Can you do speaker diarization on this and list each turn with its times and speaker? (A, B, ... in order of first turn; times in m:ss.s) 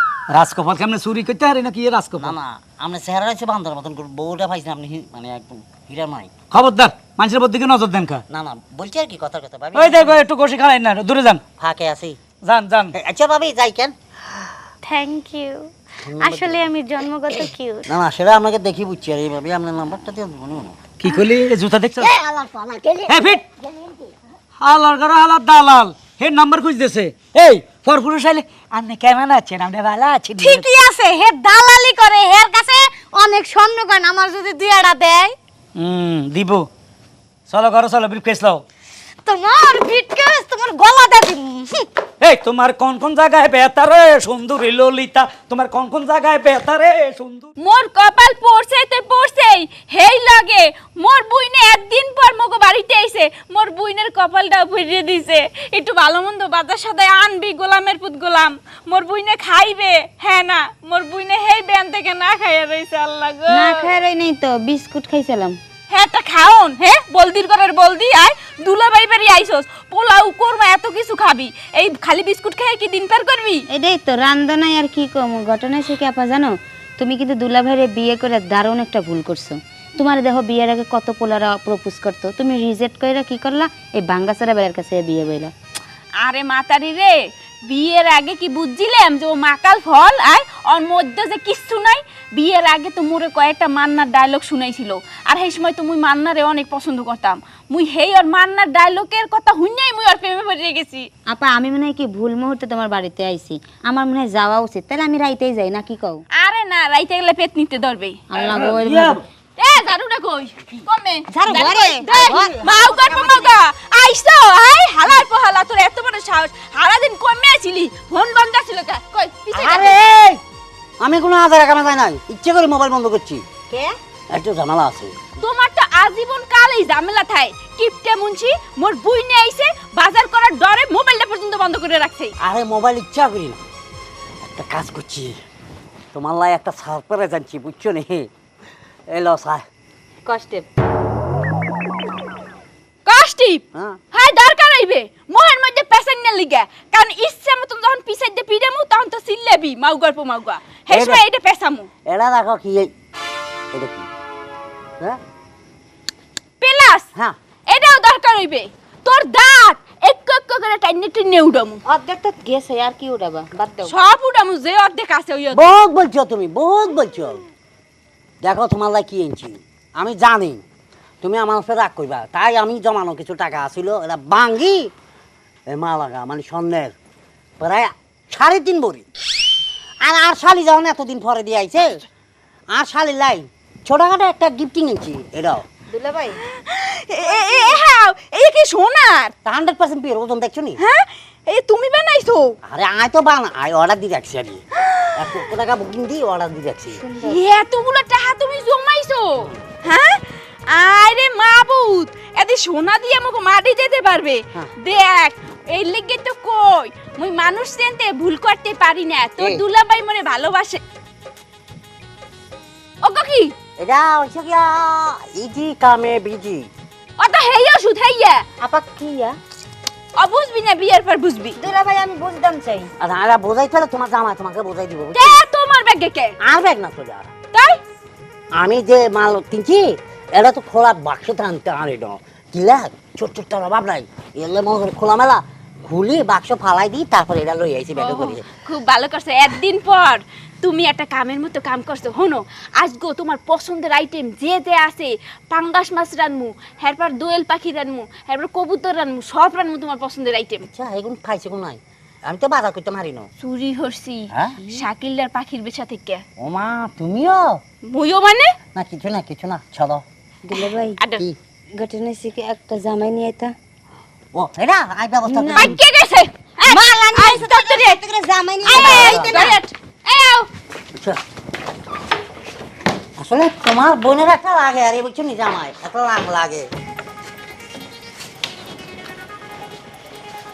0:00.3-0:02.4 A
0:02.2-0:06.3 B
0:06.5-0:08.2 A
0:08.3-0:10.2 B
0:09.8-0:11.4 A
0:11.6-0:12.2 B
0:12.4-0:13.0 A
0:13.0-0:13.9 B
0:14.8-0:17.9 C
0:16.1-0:16.7 B
0:17.4-0:20.8 B
0:21.0-0:22.1 A
0:22.0-0:24.1 D
0:23.1-0:23.4 A
0:24.6-0:30.6 A
0:30.4-0:35.4 C
0:35.8-0:36.6 A
0:37.5-0:38.6 A
0:39.2-0:41.9 C
0:42.2-0:47.5 A
0:47.6-1:03.9 E
1:03.5-1:05.6 F
1:05.9-1:13.6 E
1:13.7-1:25.5 F
1:26.2-1:27.2 E
1:27.7-1:41.1 E
1:41.2-1:46.2 F
1:46.4-1:48.2 E
1:48.3-1:49.2 F
1:48.4-1:49.2 B
1:49.6-2:00.0 E
1:51.3-1:53.5 F
1:59.5-2:00.4 B
2:01.0-2:03.5 B
2:04.3-2:05.2 B
2:05.4-2:12.3 E
2:12.4-2:13.6 B
2:14.5-2:15.4 B
2:16.1-2:18.3 B
2:19.1-2:19.6 B
2:20.2-2:20.6 F
2:23.1-2:31.9 E
2:23.7-2:24.0 B
2:30.9-2:31.2 B
2:32.1-2:32.9 B
2:33.7-2:34.1 B
2:36.6-2:37.1 E
2:37.7-2:41.8 E
2:41.9-2:43.9 F
2:43.8-2:45.7 E
2:45.5-2:47.4 B
2:48.4-2:50.6 B
2:51.2-2:54.9 B
2:55.7-2:57.0 B
2:57.6-2:59.0 B
3:00.0-3:02.0 B
3:02.7-3:05.6 B
3:05.9-3:09.3 E
3:09.4-3:10.8 B
3:10.8-3:12.5 E
3:12.6-3:14.6 B
3:14.8-3:15.5 E
3:15.2-3:17.0 B
3:17.0-3:17.4 F
3:17.2-3:30.8 E
3:19.4-3:19.6 B
3:29.4-3:29.6 B
3:33.0-3:33.5 E
3:33.8-3:36.7 B
3:37.2-3:38.4 E
3:38.6-3:39.4 F
3:40.2-3:41.6 E
3:41.6-3:42.9 F
3:43.0-3:45.4 B
3:45.1-3:46.3 E
3:46.4-3:47.3 B
3:47.5-3:47.8 E
3:48.5-3:58.4 B
3:58.0-4:10.6 E
4:10.7-4:13.3 B
4:13.4-4:16.2 E
4:14.3-4:14.6 B
4:16.4-4:17.6 B
4:17.8-4:18.6 E
4:18.7-4:20.0 B
4:20.5-4:21.0 F
4:20.5-4:21.2 E
4:21.8-4:23.6 F
4:24.3-4:25.8 B
4:25.3-4:25.7 F
4:25.5-4:28.1 E
4:26.6-4:29.6 F
4:28.6-4:30.5 E
4:28.7-4:29.5 B
4:30.9-4:31.2 B
4:33.2-4:36.7 B